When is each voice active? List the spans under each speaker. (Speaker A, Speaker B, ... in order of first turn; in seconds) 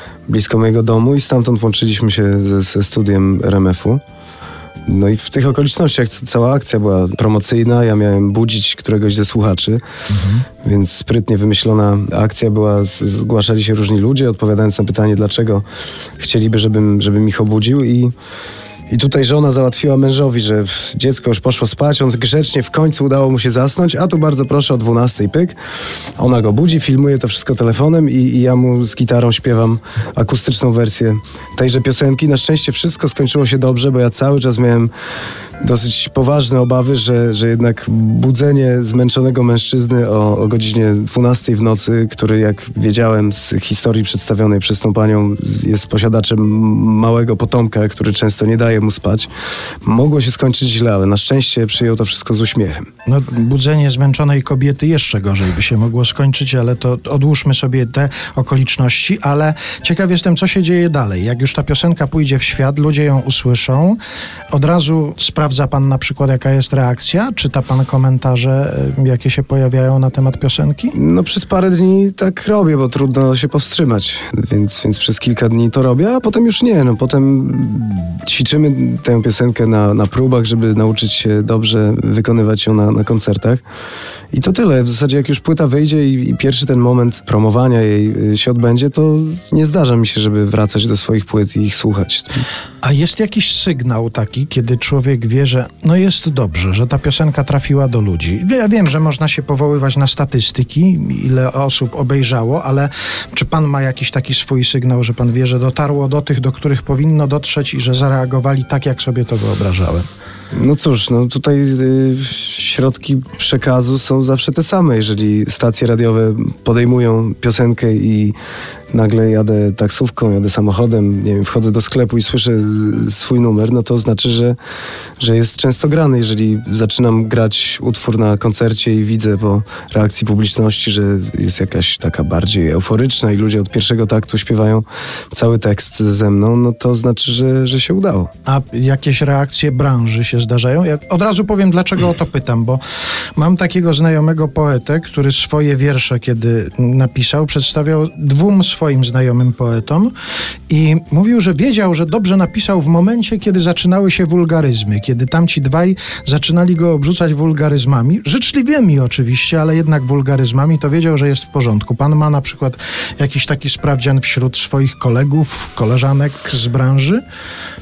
Speaker A: 0.3-4.0, 4.9-9.8, 10.6-15.7, 16.2-18.1, 18.9-25.6, 26.2-34.9, 35.6-49.3, 49.8-52.9, 71.0-83.6, 84.3-92.5, 110.5-118.3, 118.9-124.6, 125.2-138.3
Speaker B: 10.1-10.4, 53.1-64.0, 64.5-71.0, 92.8-110.1, 138.4-142.8, 143.4-150.1, 150.7-167.2